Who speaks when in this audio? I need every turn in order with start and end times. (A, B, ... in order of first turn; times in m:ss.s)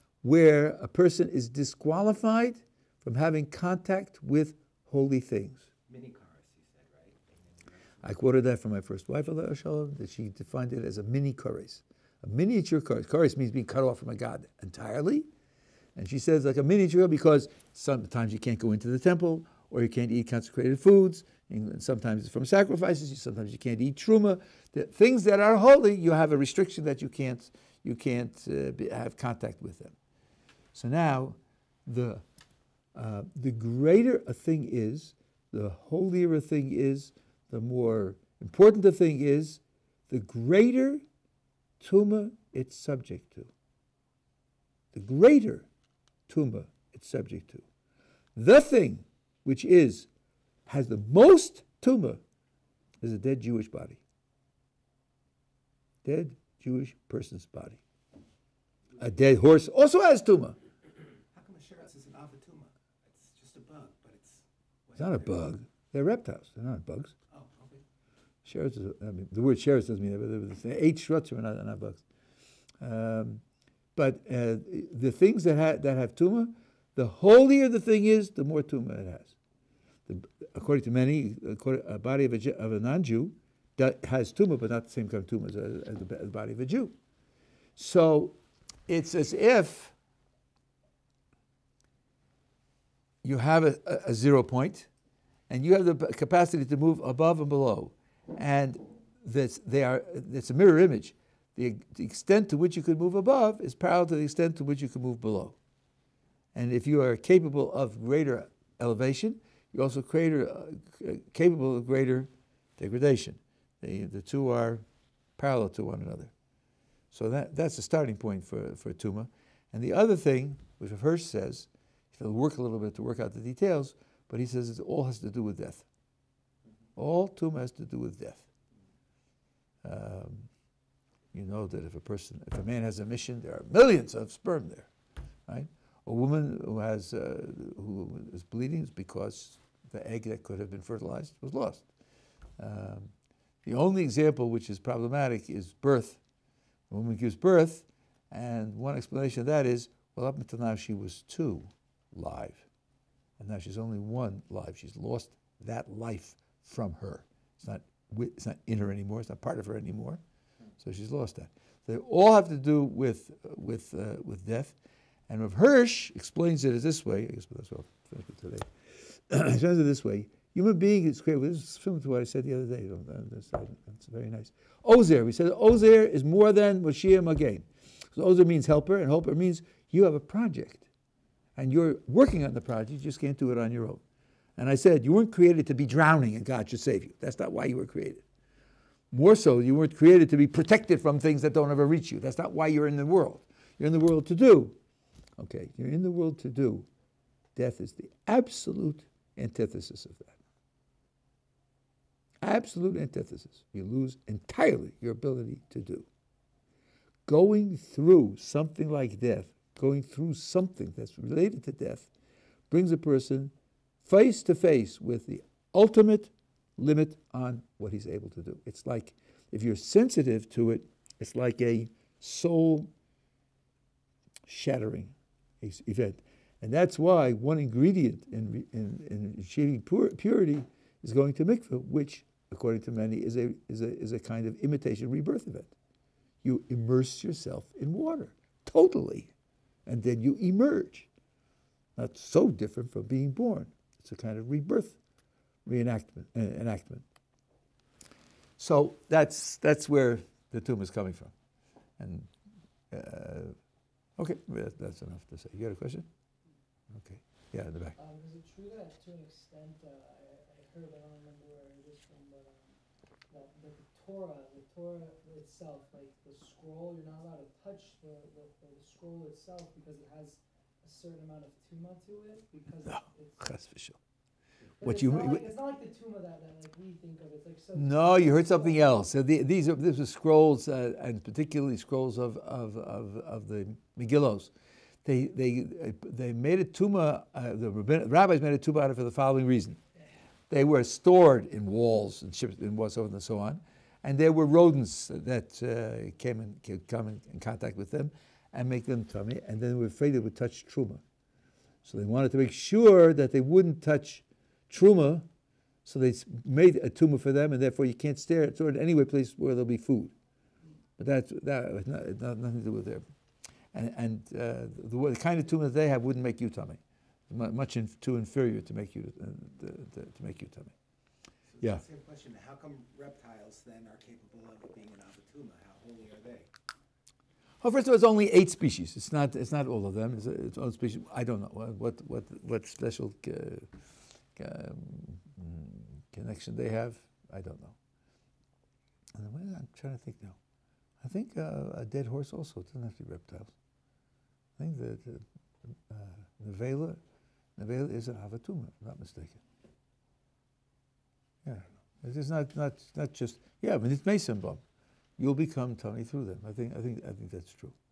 0:00.2-0:05.7 A
0:05.9-0:08.1 B
0:08.0-0:15.3 A
0:16.0-0:30.0 A
0:30.7-0:32.2 A
0:33.0-0:41.0 A
0:41.8-0:43.5 A
0:44.9-0:45.7 A
0:46.3-0:47.6 A
0:48.4-0:50.1 A
0:50.7-0:52.2 A
0:53.0-0:54.0 A
0:56.0-0:57.8 A
0:59.0-1:00.6 A
1:01.3-1:05.4 B
1:05.0-1:07.1 A
1:07.3-1:07.8 B
1:08.4-1:12.0 A
1:12.8-1:13.4 A
1:14.0-1:19.3 A
1:20.1-1:27.0 A
1:27.8-1:28.4 A
1:28.9-1:29.9 A
1:33.2-1:34.9 A
1:35.5-1:45.6 A
1:46.6-1:54.8 A
1:55.4-1:56.3 A
1:57.1-2:05.9 A
2:07.0-2:08.5 A
2:09.8-2:10.5 A
2:11.3-2:14.9 A
2:15.5-2:21.9 A
2:22.6-2:23.1 A
2:23.6-2:26.2 A
2:26.9-2:32.6 A
2:33.4-2:40.2 A
2:40.8-2:44.8 A
2:45.3-3:00.8 A
3:01.6-3:04.0 A
3:04.6-3:08.2 A
3:09.1-3:14.8 A
3:15.4-3:16.9 A
3:17.6-3:20.4 A
3:22.4-3:26.1 A
3:27.3-3:32.1 A
3:32.7-3:33.5 A
3:34.0-3:42.9 A
3:44.5-3:55.7 A
3:56.4-3:59.3 A
3:59.9-4:01.1 A
4:02.0-4:05.0 A
4:05.6-4:07.0 A
4:08.6-4:11.3 A
4:12.0-4:12.3 A
4:12.9-4:13.6 A
4:14.2-4:16.1 A
4:16.9-4:18.0 A
4:18.0-4:22.7 C
4:23.3-4:33.5 C
4:32.8-4:34.0 A
4:34.8-4:39.0 C
4:34.8-4:35.5 A
4:37.8-4:44.5 A
4:45.0-4:49.8 A
4:50.5-5:01.0 A
5:01.8-5:05.3 A
5:05.8-5:10.1 A
5:11.0-5:13.0 A
5:13.7-5:20.7 A
5:21.5-5:26.5 B
5:27.6-5:33.7 A
5:34.4-5:37.8 A
5:39.2-5:40.4 A
5:41.0-5:43.5 A
5:44.6-5:45.2 A
5:45.9-5:47.0 A
5:47.6-5:49.4 A
5:51.4-5:54.6 A
5:55.2-5:57.8 A